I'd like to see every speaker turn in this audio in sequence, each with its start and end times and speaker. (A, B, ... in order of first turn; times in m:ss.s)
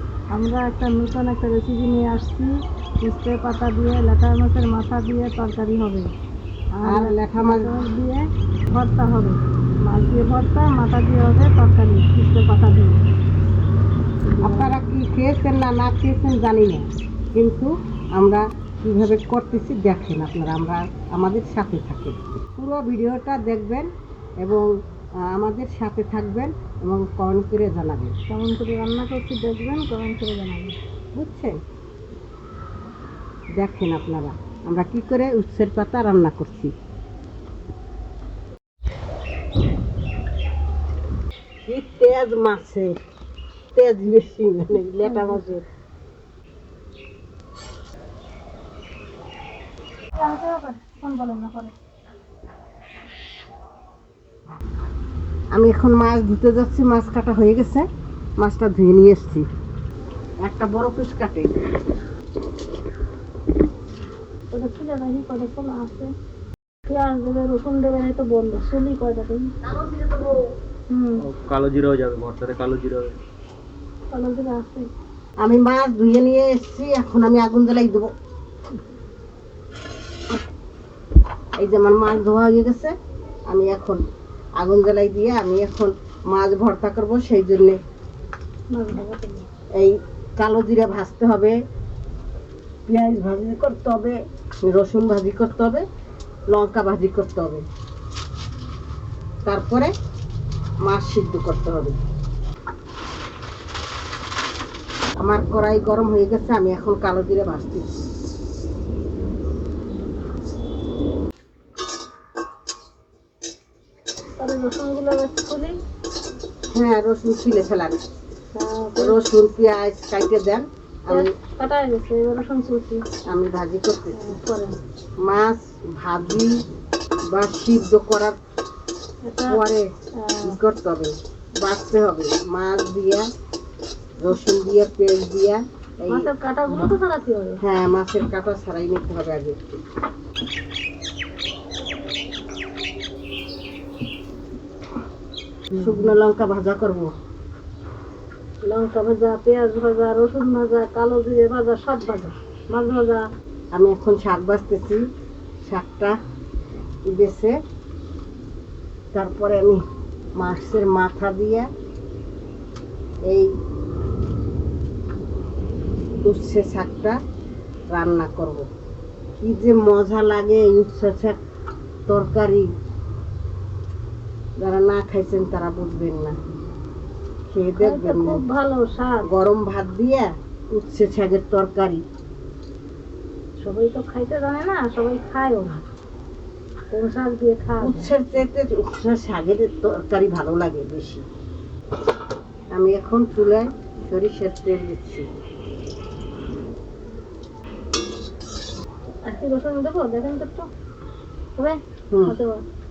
0:00.3-0:06.1 A
0:06.8-0:13.0 A
0:06.9-0:07.7 B
0:14.4-0:14.7 A
0:14.4-0:23.9 B
0:24.4-0:24.7 B
0:25.2-0:28.1 B
0:28.3-0:30.8 A
0:31.1-0:31.6 B
0:33.6-0:36.7 B
0:41.7-0:43.0 B
0:43.7-0:45.7 B
0:45.0-0:45.4 A
0:50.2-0:51.7 A
0:55.5-0:57.9 B
0:58.4-0:59.4 B
1:00.4-1:01.5 B
1:04.5-1:06.1 A
1:06.9-1:09.5 A
1:09.7-1:10.3 B
1:10.9-1:11.2 A
1:11.2-1:13.2 C
1:14.1-1:14.9 A
1:15.4-1:18.1 B
1:21.6-1:22.9 B
1:23.5-1:24.0 B
1:24.6-1:27.8 B
1:28.7-1:29.5 A
1:29.8-1:31.6 B
1:32.9-1:35.8 B
1:36.5-1:37.6 B
1:39.5-1:39.9 B
1:40.8-1:42.0 B
1:45.2-1:47.9 B
1:54.4-1:55.7 A
1:56.7-1:58.0 B
1:58.5-1:59.2 A
1:59.0-2:01.3 B
2:01.1-2:03.0 A
2:03.3-2:04.3 B
2:04.1-2:04.7 A
2:05.2-2:06.6 B
2:07.3-2:08.4 B
2:09.2-2:09.6 A
2:09.5-2:09.9 B
2:10.2-2:10.6 A
2:10.4-2:13.3 B
2:14.2-2:16.9 B
2:16.1-2:17.6 A
2:17.6-2:19.6 B
2:25.8-2:27.1 B
2:28.6-2:33.3 A
2:33.7-2:35.0 B
2:35.6-2:36.2 B
2:37.1-2:37.6 B
2:39.1-2:39.8 B
2:40.4-2:41.7 B
2:46.2-2:47.2 B
2:47.9-2:48.7 B
2:49.4-2:51.4 B
2:52.1-2:52.7 B
2:54.6-2:56.4 B
2:57.5-2:58.4 B
2:57.8-2:59.2 A
2:59.3-3:02.0 B
3:03.6-3:05.8 A
3:06.9-3:08.1 A
3:07.8-3:11.2 B
3:12.7-3:15.3 B
3:19.2-3:20.7 A
3:21.6-3:22.6 A
3:22.1-3:22.4 B